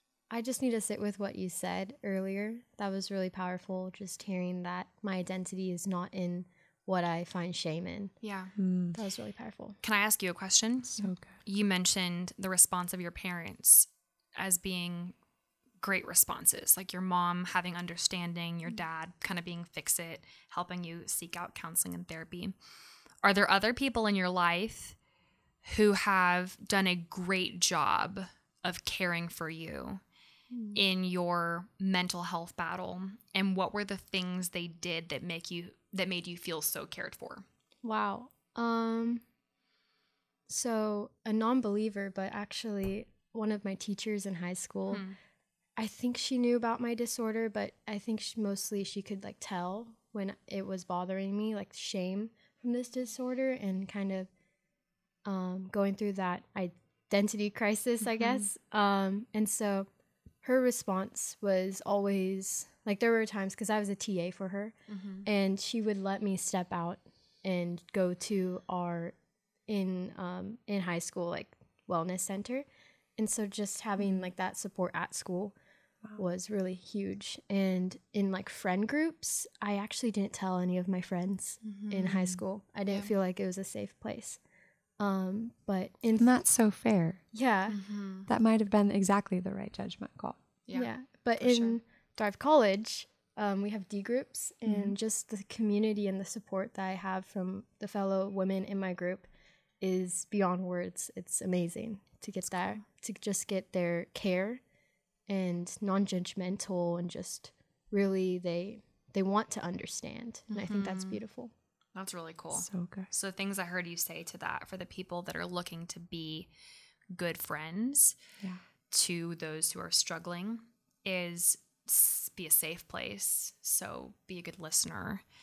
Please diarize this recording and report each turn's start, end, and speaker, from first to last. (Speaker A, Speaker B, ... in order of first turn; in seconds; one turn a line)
Speaker A: 0.3-8.2
Speaker B: 8.2-8.5
Speaker C: 8.6-8.9
Speaker A: 8.9-9.8
Speaker B: 9.8-15.1
Speaker C: 10.9-11.3
Speaker B: 15.8-22.5
Speaker B: 23.2-24.9
Speaker B: 25.6-30.0
Speaker A: 30.5-30.8
Speaker B: 30.7-37.5
Speaker A: 37.8-39.2
Speaker A: 40.5-45.0
Speaker B: 44.9-45.2
Speaker A: 45.8-54.3
Speaker A: 55.2-59.9
Speaker A: 60.4-69.1
Speaker B: 64.9-65.3
Speaker A: 69.7-72.7
Speaker A: 73.2-75.5
Speaker A: 76.2-84.4
Speaker B: 81.6-82.3
Speaker A: 85.0-86.4
Speaker C: 86.2-87.2
Speaker A: 87.3-87.8
Speaker B: 87.7-88.3
Speaker C: 88.3-90.4
Speaker B: 90.7-91.8
Speaker A: 90.7-99.3
Speaker C: 94.7-94.9
Speaker A: 99.8-104.6
Speaker A: 105.3-111.5
Speaker B: 110.5-111.2
Speaker B: 111.9-116.5
Speaker C: 112.5-113.1
Speaker B: 117.1-118.2
Speaker B: 118.9-125.2